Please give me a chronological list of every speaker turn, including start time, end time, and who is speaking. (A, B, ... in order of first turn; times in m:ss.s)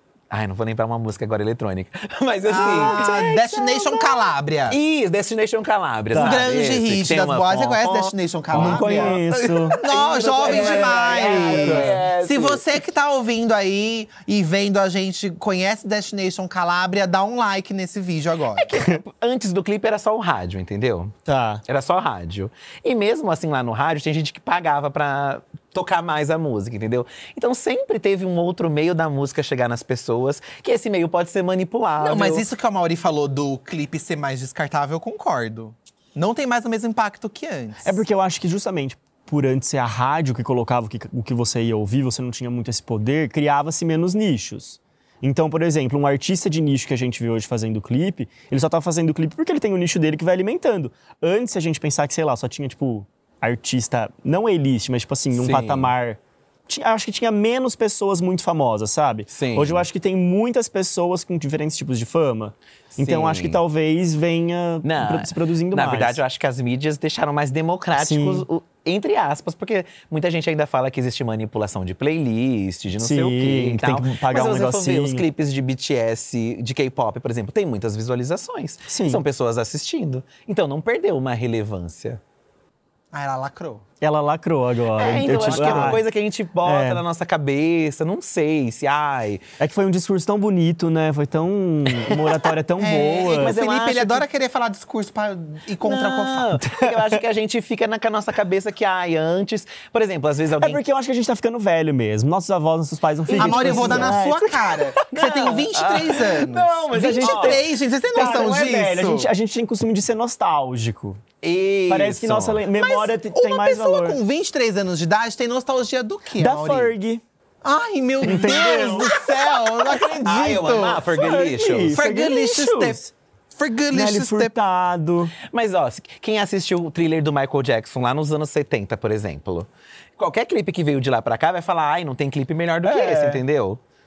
0:00.3-0:04.0 A
0:02.5-0:04.8 B
0:02.6-0:03.5 C
0:04.7-0:12.7 A
0:06.2-0:18.7 B
0:08.5-0:09.8 C
0:10.4-0:12.0 C
0:18.5-0:21.1 A
0:21.3-0:21.6 C
0:21.7-0:32.5 A
0:32.0-0:38.0 B
0:37.8-1:06.2 C
0:55.3-0:55.9 A
0:59.3-0:59.8 A
1:03.0-1:03.6 A
1:04.8-1:22.2 A
1:08.0-1:08.5 C
1:13.0-1:15.2 C
1:18.9-1:19.2 C
1:23.1-1:23.8 B
1:24.0-1:26.0 C
1:25.0-1:29.4 A
1:25.4-1:26.0 B
1:26.6-1:27.0 C
1:29.6-1:33.6 C
1:31.9-1:32.5 A
1:32.8-1:36.6 B
1:33.3-1:34.3 A
1:35.8-1:40.8 A
1:40.6-1:44.8 C
1:43.3-1:44.2 A
1:43.4-1:49.3 B
1:45.1-1:47.7 A
1:46.9-1:51.2 C
1:51.4-1:52.6 A
1:51.9-1:54.2 C
1:52.8-1:56.9 B
1:56.4-1:57.2 C
1:57.6-2:01.1 B
1:58.2-1:59.2 C
2:00.2-2:02.0 A
2:01.2-2:03.1 C
2:02.0-2:03.0 B
2:03.6-2:04.5 B
2:03.9-2:05.3 C
2:05.4-2:13.8 A
2:12.8-2:13.4 C